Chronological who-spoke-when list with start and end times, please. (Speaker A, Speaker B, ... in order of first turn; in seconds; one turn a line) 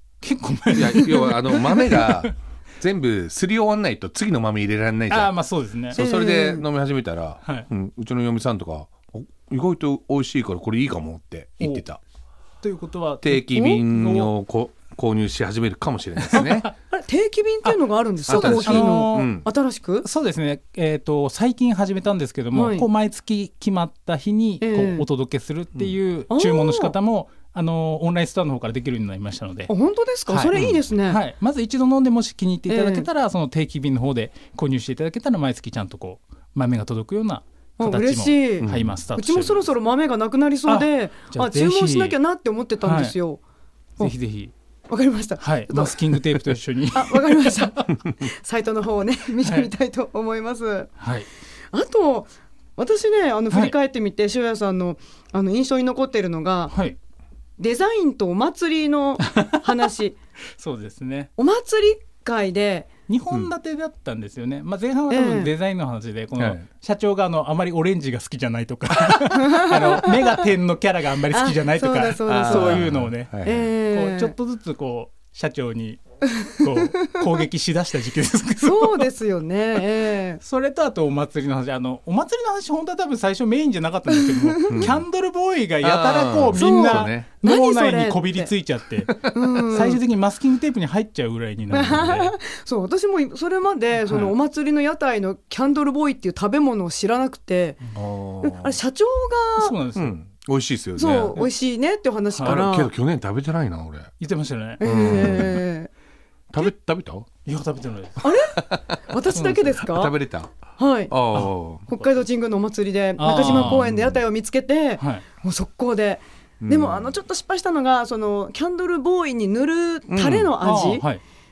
Speaker A: 0.2-2.3
Speaker B: 0.7-5.3
Speaker A: 5.1-6.0
Speaker B: 5.9-12.0
Speaker C: 5.9-6.7
Speaker A: 12.6-14.3
Speaker B: 13.2-16.7
Speaker A: 16.2-16.7
Speaker C: 16.9-20.1
Speaker A: 17.6-19.4
Speaker B: 18.3-19.4
Speaker A: 20.0-29.7
Speaker C: 22.5-22.9
Speaker C: 24.6-25.1
Speaker C: 26.3-26.9
Speaker C: 29.7-31.2
Speaker A: 30.3-39.6
Speaker B: 30.5-30.8
Speaker C: 32.7-33.1
Speaker C: 37.8-43.4
Speaker B: 38.6-38.9
Speaker A: 40.7-42.2
Speaker A: 42.8-43.1
Speaker A: 44.0-44.5
Speaker C: 44.9-46.3
Speaker A: 45.4-47.9
Speaker C: 46.9-50.9
Speaker A: 49.4-49.7
Speaker A: 51.0-51.3
Speaker C: 51.7-56.7
Speaker A: 56.7-57.0
Speaker C: 57.6-60.1
Speaker A: 59.2-59.9
Speaker A: 60.6-61.3
Speaker C: 61.4-62.9
Speaker A: 63.1-76.0
Speaker C: 65.1-65.5
Speaker B: 66.4-66.6
Speaker C: 69.2-70.4
Speaker C: 71.3-72.9
Speaker B: 72.3-73.7
Speaker C: 73.4-74.3
Speaker A: 76.6-79.1
Speaker C: 78.6-80.4
Speaker A: 80.4-92.3
Speaker C: 84.2-84.9
Speaker B: 84.7-85.0
Speaker B: 85.8-87.3
Speaker C: 86.5-88.5
Speaker C: 89.3-90.0
Speaker C: 91.7-97.8
Speaker A: 94.0-94.3
Speaker B: 97.9-98.8
Speaker C: 98.4-99.7
Speaker A: 99.6-100.1
Speaker B: 100.0-101.4
Speaker C: 101.0-102.9
Speaker B: 102.4-104.1
Speaker A: 104.2-105.5
Speaker C: 104.8-105.9
Speaker B: 104.8-105.6
Speaker B: 106.5-107.3
Speaker A: 107.4-108.3
Speaker C: 108.2-110.1
Speaker B: 108.6-109.0
Speaker A: 109.3-109.8
Speaker B: 109.8-110.5
Speaker C: 110.8-111.1
Speaker B: 111.1-111.9
Speaker C: 111.9-121.0
Speaker A: 113.2-113.9
Speaker B: 113.5-114.2
Speaker A: 115.0-115.2
Speaker B: 116.6-117.1
Speaker B: 120.1-120.5
Speaker A: 120.6-121.2